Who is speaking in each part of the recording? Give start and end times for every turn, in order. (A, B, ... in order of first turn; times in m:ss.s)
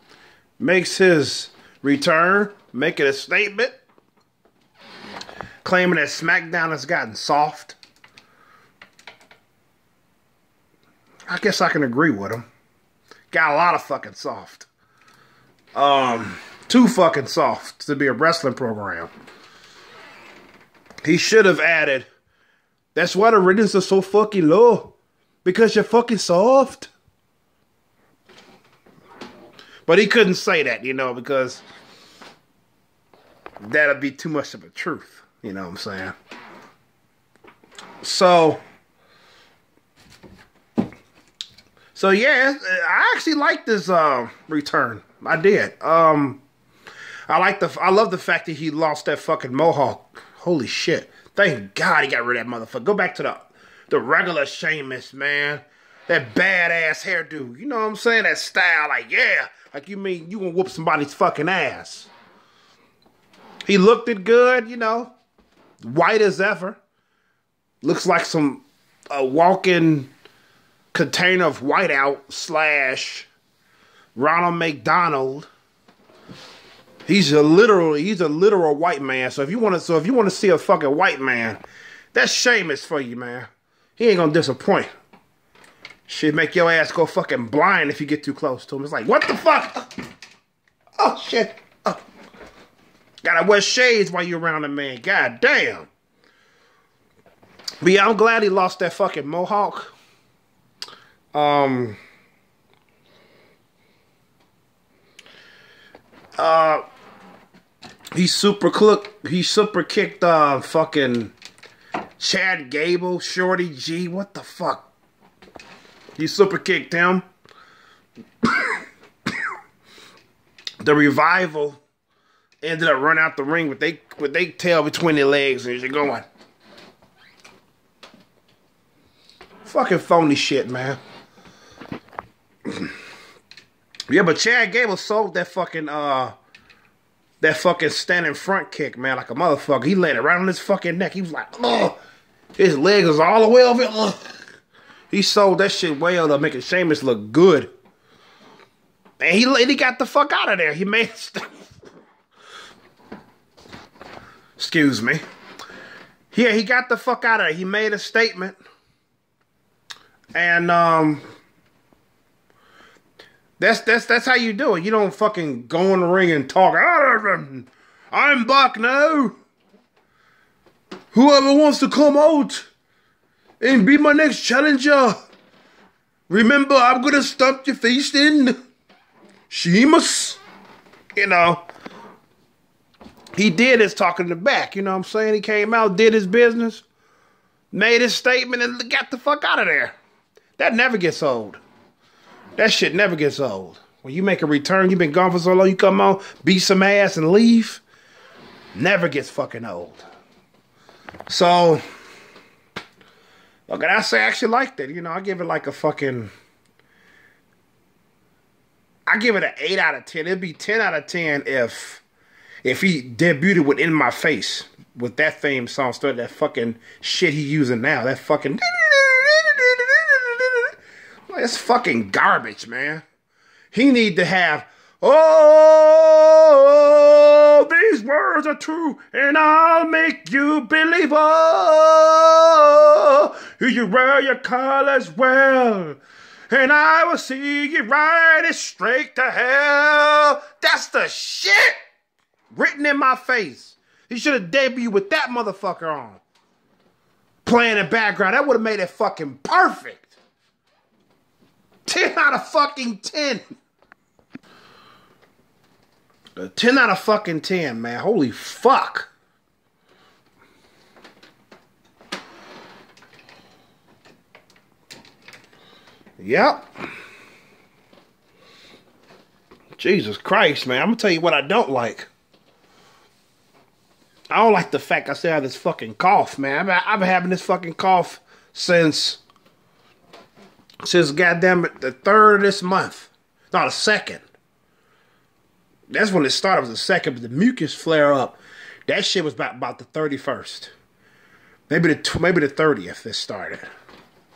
0:00.6-0:03.8 A
0:05.6-0:07.8 A
0:11.3-0:12.5 A
0:13.3-0:14.7 A
0:15.8-0:19.1 A
0:21.0-0:22.1 A
0:23.0-0:26.9 A
0:29.9-0:31.6 A
0:33.6-0:36.2 A
0:38.0-0:38.6 A
0:42.0-0:46.4 A
0:47.3-1:02.1 A
1:03.7-1:05.1 A
1:05.8-1:06.8 A
1:07.8-1:10.1 A
1:10.9-1:13.3 A
1:14.2-1:15.5 A
1:17.1-1:21.6 A
1:22.1-1:24.9 A
1:26.1-1:29.9 A
1:31.0-1:32.0 A
1:33.2-1:35.9 A
1:37.8-1:40.0 A
1:41.3-1:42.0 A
1:46.4-1:46.8 A
1:48.1-1:51.3 A
1:52.2-1:54.9 A
1:56.2-1:57.2 A
1:58.4-1:58.8 A
2:00.8-2:01.8 A
2:02.6-2:06.3 A
2:09.6-2:11.0 A
2:14.1-2:16.4 A
2:17.4-2:22.0 A
2:22.6-2:24.2 A
2:25.1-2:27.7 A
2:29.2-2:31.6 A
2:34.6-2:35.2 A
2:36.3-2:38.6 A
2:40.4-2:41.2 A
2:43.6-2:49.4 A
2:51.1-2:52.7 A
2:53.6-2:55.2 A
2:56.3-2:58.6 A
2:59.5-3:00.4 A
3:01.2-3:01.6 A
3:03.4-3:06.8 A
3:07.7-3:10.0 A
3:10.6-3:11.6 A
3:12.6-3:17.8 A
3:18.7-3:20.1 A
3:21.3-3:21.8 A
3:23.7-3:26.3 A
3:29.1-3:32.0 A
3:32.6-3:40.7 A
3:41.3-3:43.0 A
3:43.7-3:56.0 A
3:56.5-4:01.8 A
4:02.5-4:06.2 A
4:07.4-4:10.1 A
4:11.9-4:13.4 A
4:16.4-4:19.1 A
4:26.2-4:26.7 A
4:29.8-4:32.1 A
4:34.3-4:39.2 A
4:40.8-4:44.2 A
4:45.9-4:50.7 A
4:51.7-4:53.6 A